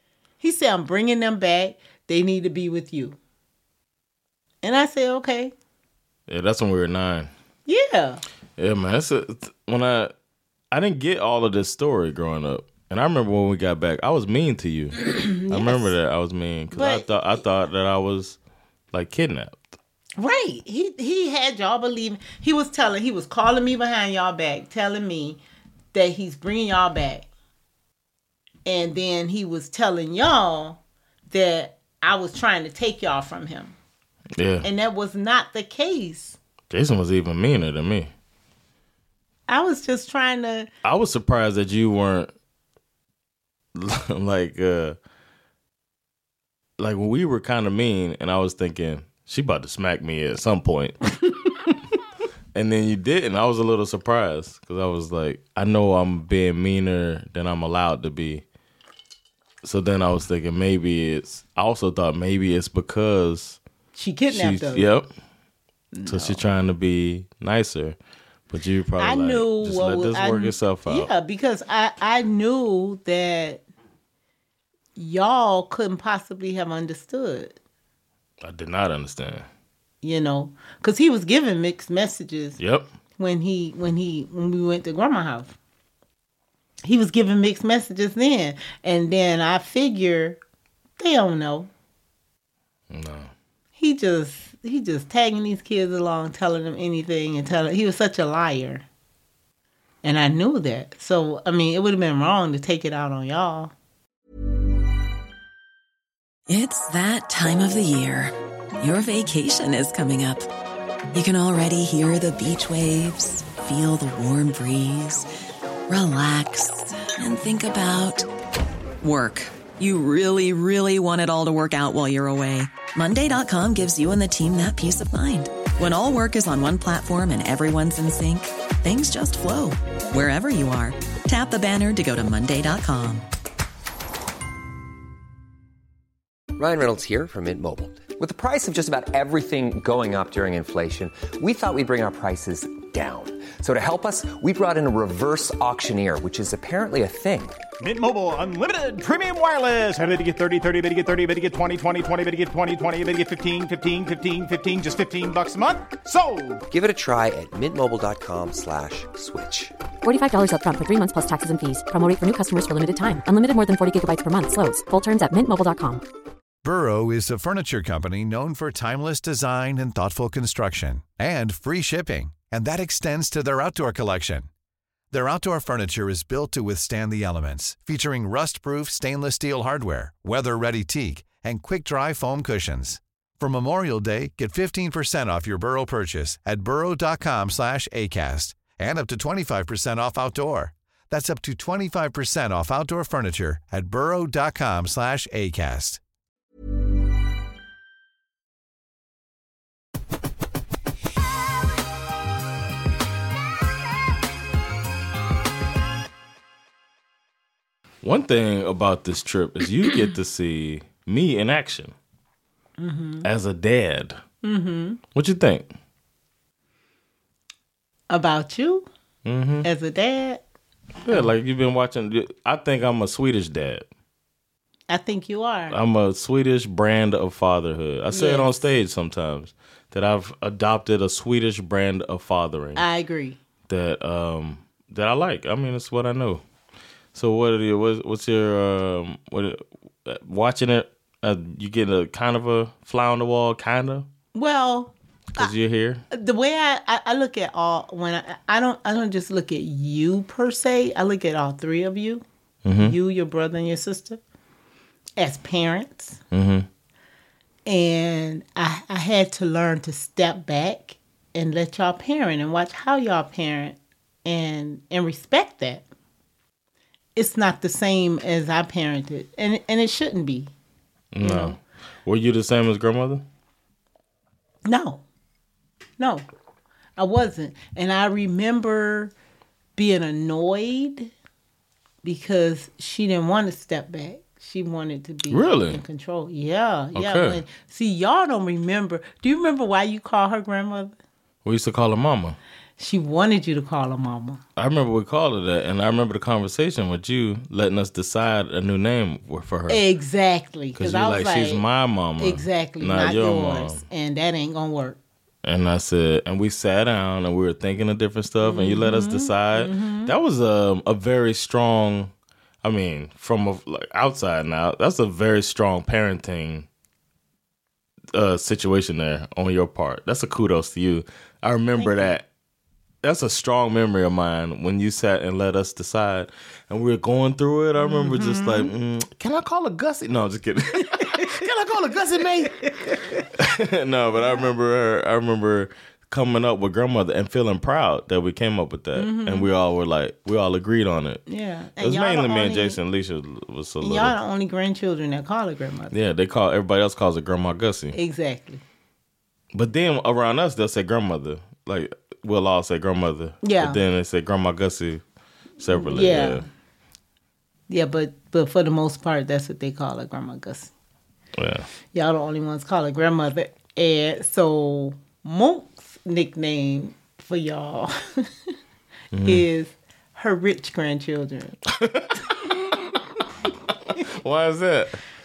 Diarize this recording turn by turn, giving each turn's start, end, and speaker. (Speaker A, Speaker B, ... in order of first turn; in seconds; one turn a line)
Speaker A: 0.4-3.2
Speaker A: 4.6-5.5
Speaker B: 6.3-7.3
Speaker A: 7.7-8.2
Speaker B: 8.6-10.1
Speaker B: 10.7-18.4
Speaker A: 15.0-15.9
Speaker A: 16.7-17.1
Speaker B: 18.9-19.6
Speaker A: 20.2-25.4
Speaker A: 25.9-27.2
Speaker A: 28.6-30.8
Speaker A: 31.3-33.7
Speaker B: 34.4-34.7
Speaker A: 34.6-36.4
Speaker B: 36.7-38.1
Speaker A: 39.5-40.7
Speaker B: 40.8-42.3
Speaker B: 43.7-45.0
Speaker B: 46.8-51.0
Speaker B: 52.5-58.4
Speaker B: 59.6-63.6
Speaker A: 63.9-64.9
Speaker B: 64.3-65.1
Speaker A: 65.9-66.4
Speaker B: 66.1-68.0
Speaker B: 68.5-71.1
Speaker A: 69.0-73.6
Speaker A: 75.0-77.5
Speaker B: 78.4-79.5
Speaker A: 80.0-82.6
Speaker B: 82.6-82.9
Speaker A: 83.2-85.6
Speaker A: 86.8-90.4
Speaker A: 91.0-91.7
Speaker B: 92.9-93.3
Speaker A: 93.8-98.8
Speaker A: 100.0-103.7
Speaker C: 106.5-110.5
Speaker C: 111.1-115.3
Speaker C: 115.9-118.3
Speaker C: 119.0-133.2
Speaker D: 136.6-147.6
Speaker E: 147.8-156.6
Speaker D: 156.7-159.7
Speaker F: 160.0-166.0
Speaker G: 166.6-174.5
Speaker G: 175.1-196.0
Speaker B: 208.0-211.9
Speaker A: 212.8-213.3
Speaker B: 213.2-214.2
Speaker A: 214.4-215.0
Speaker B: 215.1-215.7
Speaker A: 218.1-218.9
Speaker B: 219.2-219.7
Speaker A: 219.6-220.4
Speaker B: 221.0-223.9
Speaker A: 224.9-225.8
Speaker B: 225.7-232.8
Speaker A: 228.1-228.5
Speaker A: 232.8-233.4
Speaker B: 233.7-236.4
Speaker B: 237.1-244.1
Speaker A: 244.3-245.5
Speaker B: 245.4-246.0
Speaker A: 246.1-252.2
Speaker B: 252.6-252.9
Speaker A: 252.8-254.2
Speaker A: 255.2-256.2
Speaker B: 256.3-256.7
Speaker A: 257.7-265.8
Speaker A: 267.1-270.5
Speaker B: 271.1-273.2
Speaker A: 271.2-271.6
Speaker A: 274.6-275.0
Speaker A: 276.0-276.2
Speaker A: 277.0-279.1
Speaker A: 279.8-281.1
Speaker A: 282.0-290.9
Speaker B: 285.3-285.8
Speaker B: 286.9-287.4
Speaker B: 291.4-292.4
Speaker A: 292.8-294.4
Speaker B: 294.6-299.8
Speaker A: 299.7-301.6
Speaker B: 300.7-303.8
Speaker A: 302.2-305.0
Speaker B: 305.4-312.1
Speaker A: 308.4-310.1
Speaker B: 312.6-316.7
Speaker B: 318.1-322.2
Speaker A: 321.8-322.1
Speaker B: 323.0-332.7
Speaker A: 327.8-328.7
Speaker B: 333.4-341.2
Speaker A: 334.1-334.5
Speaker A: 338.9-339.5
Speaker A: 341.3-342.8
Speaker B: 341.8-344.1
Speaker A: 343.8-345.9
Speaker B: 345.9-347.9
Speaker A: 347.9-348.6
Speaker B: 349.5-355.0
Speaker A: 353.4-353.8
Speaker B: 355.6-356.4
Speaker A: 355.7-356.4
Speaker A: 357.7-360.7
Speaker B: 361.4-361.7
Speaker A: 361.9-368.3
Speaker B: 369.1-369.4
Speaker A: 369.2-371.6
Speaker B: 371.8-372.1
Speaker B: 374.2-375.0